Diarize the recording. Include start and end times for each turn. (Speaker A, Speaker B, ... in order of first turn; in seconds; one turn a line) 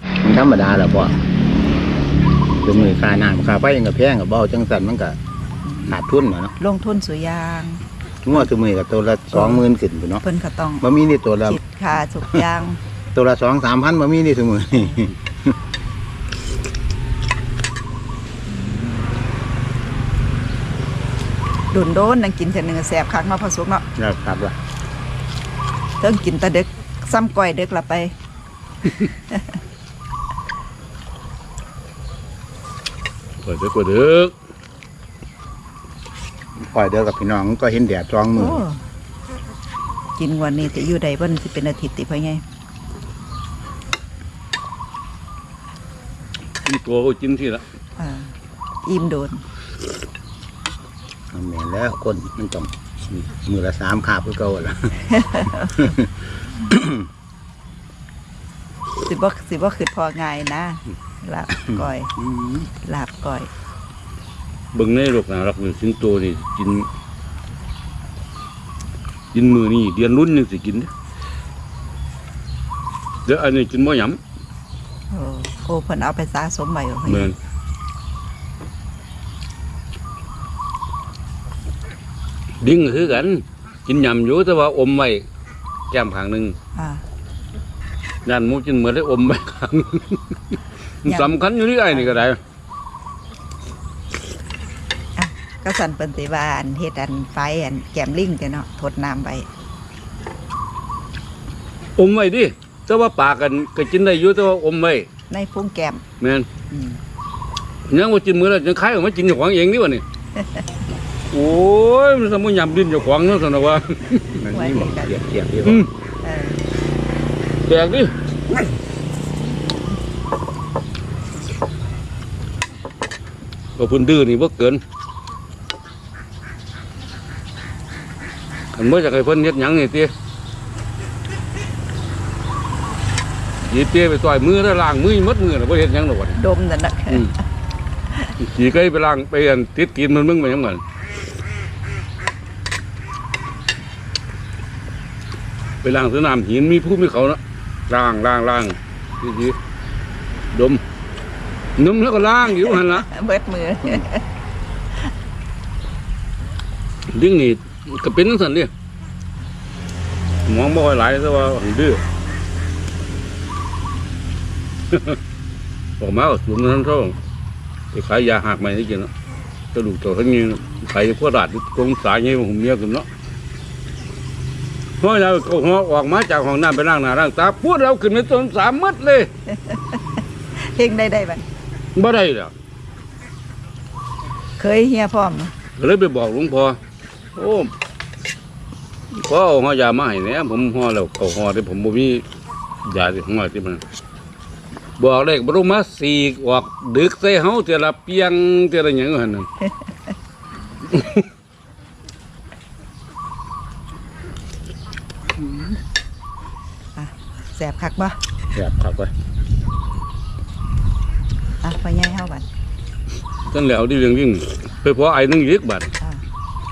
Speaker A: 0.2-1.2
Speaker A: 2.6-5.2
Speaker A: 5.8-6.5
Speaker B: 6.6-7.8
Speaker A: 8.2-10.2
Speaker B: 9.3-9.7
Speaker B: 10.2-10.8
Speaker A: 10.8-11.6
Speaker B: 11.5-12.8
Speaker A: 13.1-15.6
Speaker B: 18.6-18.9
Speaker B: 21.7-23.9
Speaker A: 24.0-24.6
Speaker B: 26.0-28.1
Speaker B: 29.0-29.5
Speaker C: 33.4-34.3
Speaker A: 36.5-38.6
Speaker B: 38.4-38.8
Speaker B: 40.2-42.4
Speaker C: 46.7-47.6
Speaker B: 48.0-48.3
Speaker B: 48.9-49.4
Speaker A: 51.3-57.1
Speaker B: 55.1-55.8
Speaker B: 59.1-62.1
Speaker A: 62.2-62.7
Speaker B: 62.8-63.5
Speaker C: 64.7-66.9
Speaker C: 69.3-70.9
Speaker C: 73.3-74.2
Speaker B: 75.1-77.3
Speaker C: 77.1-77.3
Speaker C: 82.6-85.2
Speaker C: 85.9-86.6
Speaker B: 86.8-87.0
Speaker C: 88.2-90.4
Speaker C: 91.0-92.4
Speaker B: 91.1-91.3
Speaker B: 91.9-92.2
Speaker B: 95.2-99.5
Speaker C: 102.0-105.1
Speaker B: 105.3-106.0
Speaker C: 106.2-106.5
Speaker B: 106.7-107.0
Speaker C: 107.9-110.0
Speaker B: 110.4-110.6
Speaker C: 111.3-114.4
Speaker A: 114.4-115.9
Speaker B: 114.5-115.1
Speaker C: 115.6-115.9
Speaker B: 116.2-116.6
Speaker C: 117.7-118.1
Speaker C: 123.8-124.8
Speaker C: 128.7-130.1
Speaker C: 133.7-136.4
Speaker B: 136.4-137.3
Speaker C: 138.4-140.8
Speaker C: 145.8-149.6
Speaker C: 150.5-150.8
Speaker C: 151.8-153.1
Speaker B: 152.6-154.2
Speaker C: 157.1-158.7
Speaker C: 160.5-162.0
Speaker C: 164.9-165.2
Speaker C: 166.0-167.2
Speaker C: 167.9-169.1
Speaker C: 169.7-173.1
Speaker C: 175.0-179.3
Speaker B: 179.5-181.4
Speaker C: 182.0-182.5
Speaker B: 184.6-185.5
Speaker C: 185.8-186.8
Speaker C: 187.4-187.7
Speaker C: 189.1-192.2
Speaker C: 192.8-193.8
Speaker C: 195.0-199.5
Speaker C: 200.9-201.3
Speaker B: 205.4-205.8
Speaker B: 207.0-208.2
Speaker A: 208.5-209.1
Speaker B: 211.6-212.5
Speaker C: 213.5-215.9